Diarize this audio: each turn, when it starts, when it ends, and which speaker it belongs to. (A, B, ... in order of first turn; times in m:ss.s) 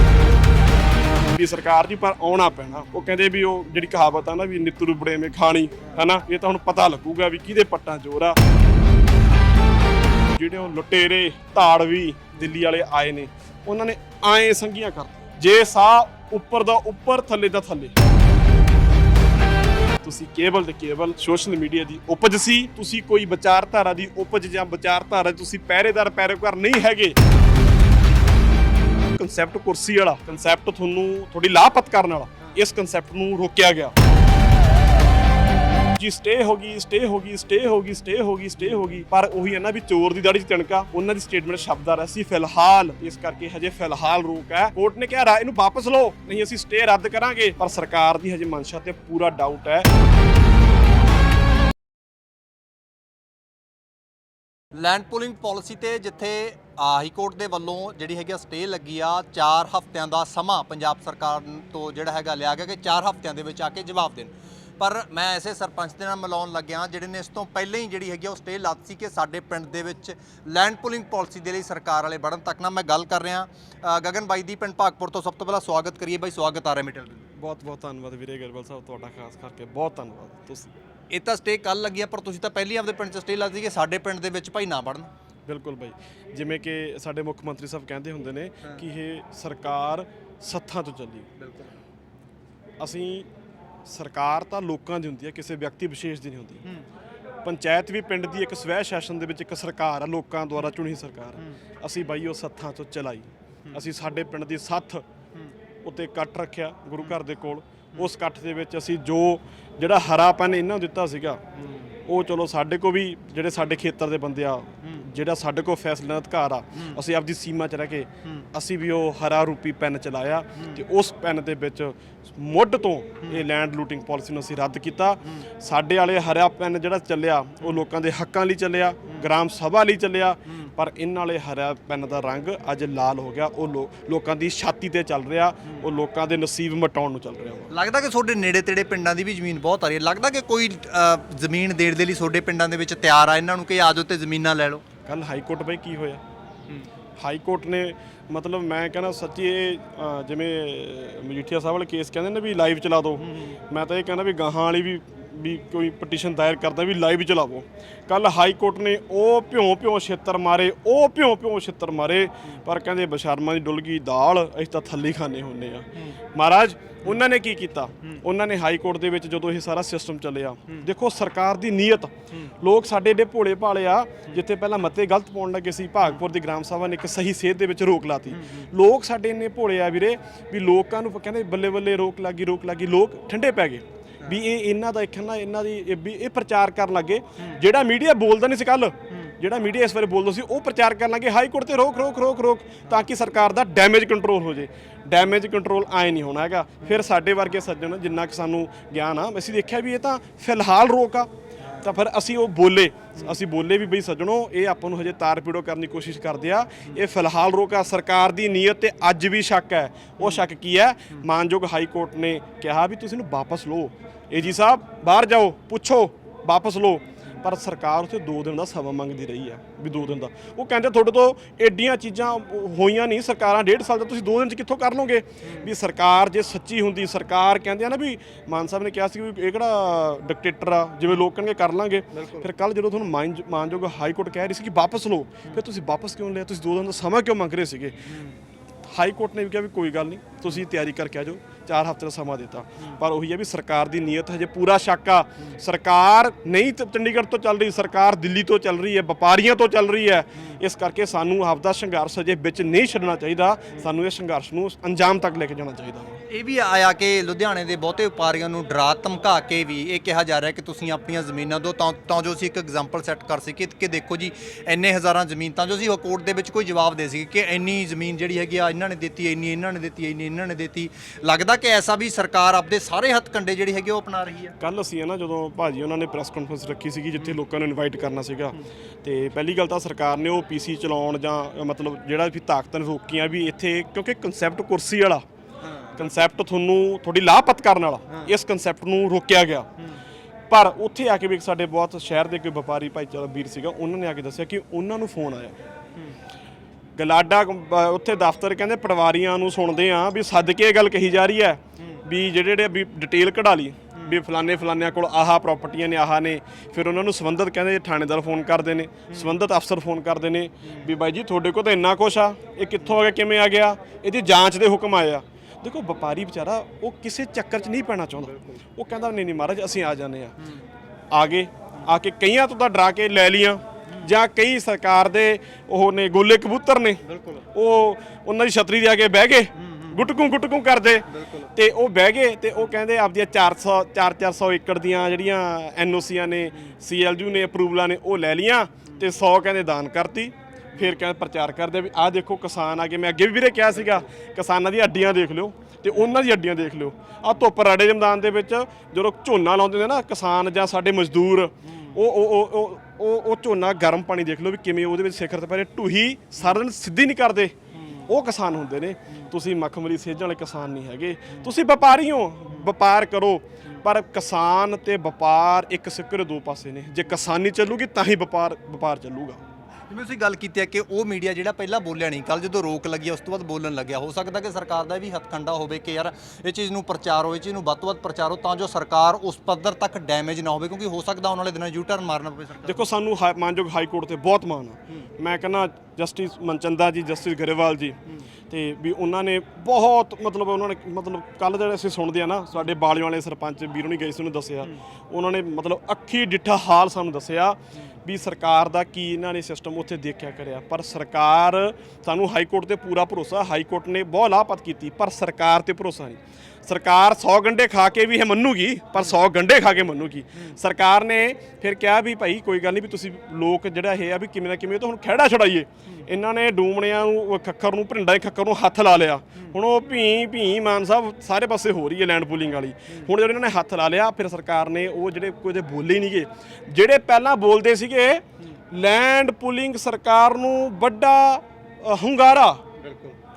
0:01.3-0:08.4 A
0:10.3-0:18.0 A
0:20.0-0:27.2 A
0:29.1-0:33.9 A
0:36.0-0:49.9 A
0:54.8-1:17.2 B
1:17.4-1:20.7 A
1:21.1-1:25.1 B
1:25.5-1:31.3 A
1:31.4-1:31.7 B
1:32.8-1:33.3 A
1:33.9-1:36.6 A
1:37.4-1:45.0 A
1:45.8-1:51.4 A
1:51.6-1:51.9 B
1:52.1-2:17.7 A
2:17.7-2:24.8 B
2:25.1-2:26.2 A
2:27.2-3:21.3 A
2:33.2-2:33.6 B
2:58.3-2:58.7 B
3:21.6-3:22.0 B
3:21.8-3:58.1 A
3:45.4-3:45.7 B
3:52.1-3:52.5 B
3:58.0-3:58.4 B
3:58.9-4:16.2 A
4:16.3-4:34.5 B
4:34.6-4:45.2 A
4:45.6-4:46.2 B
4:46.0-4:49.7 A
4:48.1-4:48.3 B
4:50.5-4:55.6 A
4:57.0-5:20.4 A
5:09.1-5:09.4 B
5:21.1-6:09.4 A
5:27.0-5:27.5 B
5:29.6-5:30.1 B
5:31.1-5:31.5 B
5:57.7-5:58.1 B
6:09.9-6:22.9 B
6:22.7-6:28.0 A
6:28.5-7:12.6 A
7:12.8-7:13.2 B